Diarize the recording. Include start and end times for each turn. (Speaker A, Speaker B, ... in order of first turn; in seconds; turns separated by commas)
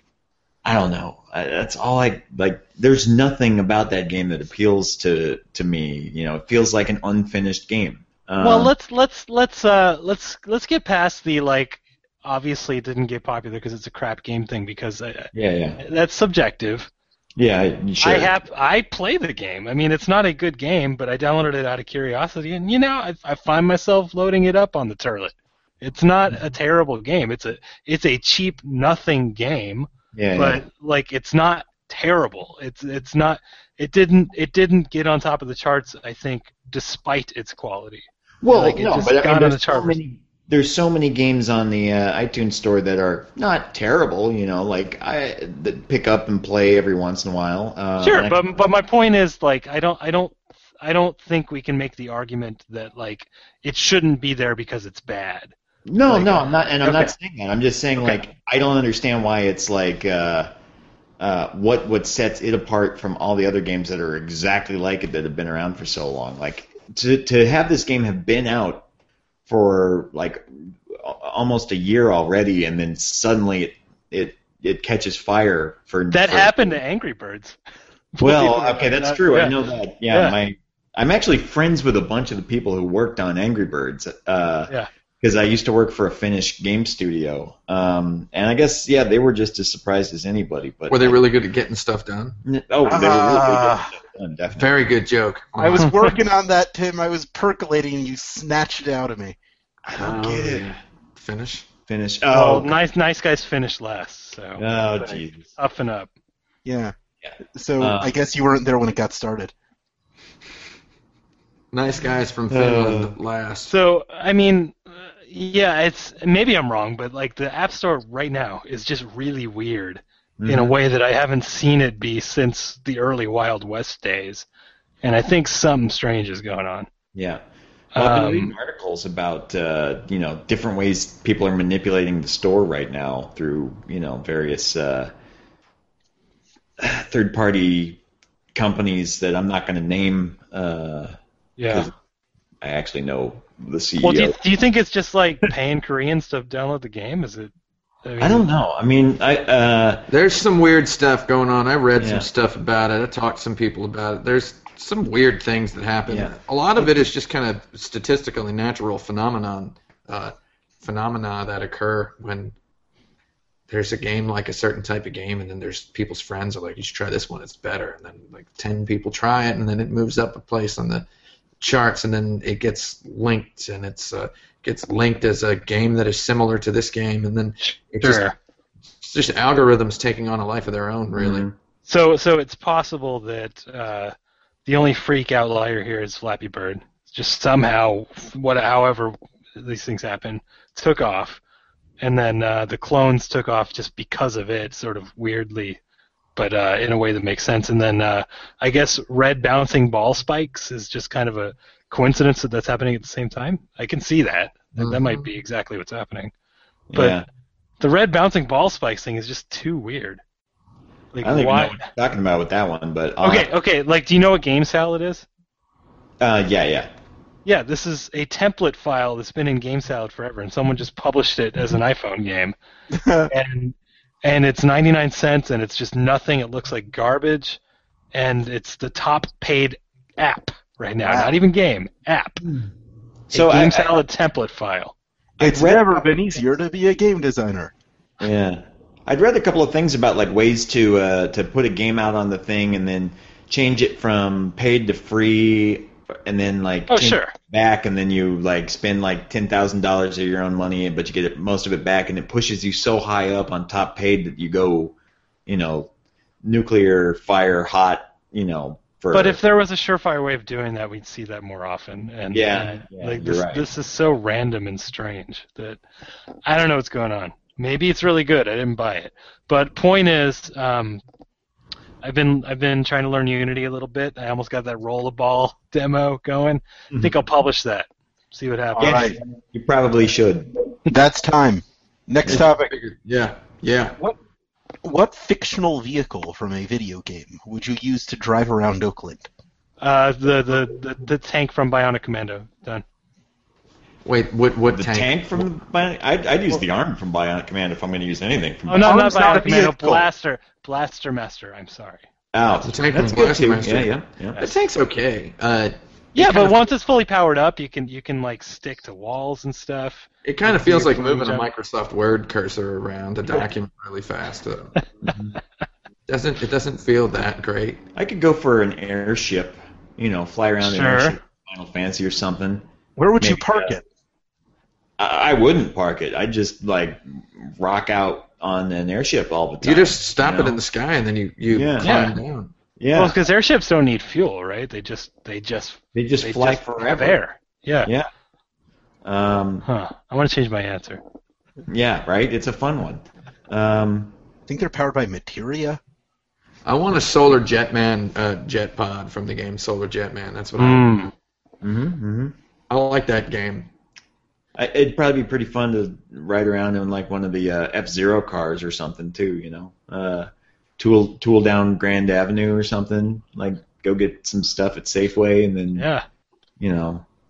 Speaker A: 0.7-8.7, Speaker B: 8.4-16.9, Speaker A: 15.3-15.8, Speaker A: 17.4-18.3, Speaker B: 18.0-40.0, Speaker A: 30.1-30.6, Speaker A: 38.4-48.6, Speaker B: 48.0-55.5, Speaker A: 55.9-60.5, Speaker B: 56.1-57.1, Speaker A: 61.2-68.9, Speaker A: 69.5-76.8, Speaker B: 76.1-77.6, Speaker B: 78.1-79.6, Speaker A: 78.2-91.2, Speaker C: 90.9-92.4, Speaker A: 92.5-94.7, Speaker D: 92.9-93.9, Speaker C: 94.5-96.0, Speaker D: 95.6-99.4, Speaker B: 95.8-96.2, Speaker C: 99.9-101.7, Speaker A: 99.9-100.7, Speaker A: 101.9-102.8, Speaker B: 102.3-106.1, Speaker A: 104.6-105.5, Speaker D: 106.7-106.9, Speaker A: 107.2-108.1, Speaker D: 107.5-109.5, Speaker C: 111.7-113.7, Speaker A: 112.5-113.2, Speaker B: 113.7-124.5, Speaker A: 120.4-120.8, Speaker B: 125.0-126.9, Speaker A: 127.2-127.4, Speaker A: 128.0-135.1, Speaker B: 128.0-128.5, Speaker A: 136.8-138.0, Speaker A: 138.6-141.2, Speaker B: 141.6-141.9, Speaker A: 141.7-141.9, Speaker A: 142.6-144.4, Speaker B: 144.0-147.5, Speaker B: 148.0-148.5, Speaker A: 148.2-150.1, Speaker C: 150.1-162.6, Speaker A: 152.0-152.3, Speaker A: 156.1-156.3, Speaker C: 163.7-171.1, Speaker C: 171.6-178.3, Speaker B: 178.0-178.3, Speaker C: 179.0-181.5, Speaker A: 181.2-181.6, Speaker B: 181.9-184.1, Speaker B: 184.7-191.4, Speaker B: 192.0-195.8, Speaker B: 196.4-206.3, Speaker C: 204.8-205.2, Speaker A: 206.9-207.3, Speaker B: 206.9-207.2, Speaker B: 207.8-210.2, Speaker B: 211.1-211.9, Speaker A: 211.2-213.5, Speaker B: 213.2-215.3, Speaker A: 216.2-216.9, Speaker B: 217.4-222.6, Speaker D: 222.9-223.3, Speaker B: 223.3-227.6, Speaker B: 228.1-232.4, Speaker D: 231.0-231.4, Speaker A: 233.3-234.0, Speaker B: 233.3-234.9, Speaker A: 235.4-236.1, Speaker D: 235.4-237.7, Speaker A: 238.2-254.9, Speaker B: 246.9-247.3, Speaker A: 255.5-255.9, Speaker A: 256.4-259.4, Speaker B: 259.1-265.8, Speaker A: 262.3-263.6, Speaker B: 266.5-271.0, Speaker B: 272.0-279.2, Speaker D: 278.8-279.2, Speaker A: 278.8-280.5, Speaker D: 280.9-282.7, Speaker C: 282.3-284.0, Speaker D: 284.8-289.3, Speaker B: 289.8-292.8, Speaker C: 294.1-295.5, Speaker A: 294.7-299.2, Speaker B: 298.7-302.0, Speaker D: 298.8-300.1, Speaker A: 302.3-304.4, Speaker C: 302.6-306.6, Speaker B: 306.1-311.4, Speaker C: 310.2-314.8, Speaker A: 315.0-315.4, Speaker C: 316.1-317.8, Speaker A: 317.9-322.6, Speaker B: 320.6-321.2, Speaker D: 323.0-323.8, Speaker A: 323.2-323.8, Speaker A: 325.0-330.6, Speaker C: 329.6-332.5, Speaker A: 331.5-332.0, Speaker B: 331.8-332.2, Speaker A: 332.8-333.2, Speaker B: 332.9-337.9, Speaker A: 335.9-337.2, Speaker A: 337.8-338.1, Speaker A: 339.0-339.6, Speaker B: 339.7-341.0, Speaker A: 341.7-344.1, Speaker D: 344.5-345.8, Speaker C: 346.7-351.1, Speaker B: 350.6-351.1, Speaker A: 351.6-352.4, Speaker C: 352.7-353.7, Speaker A: 354.6-365.9, Speaker B: 365.8-366.0, Speaker A: 366.6-367.1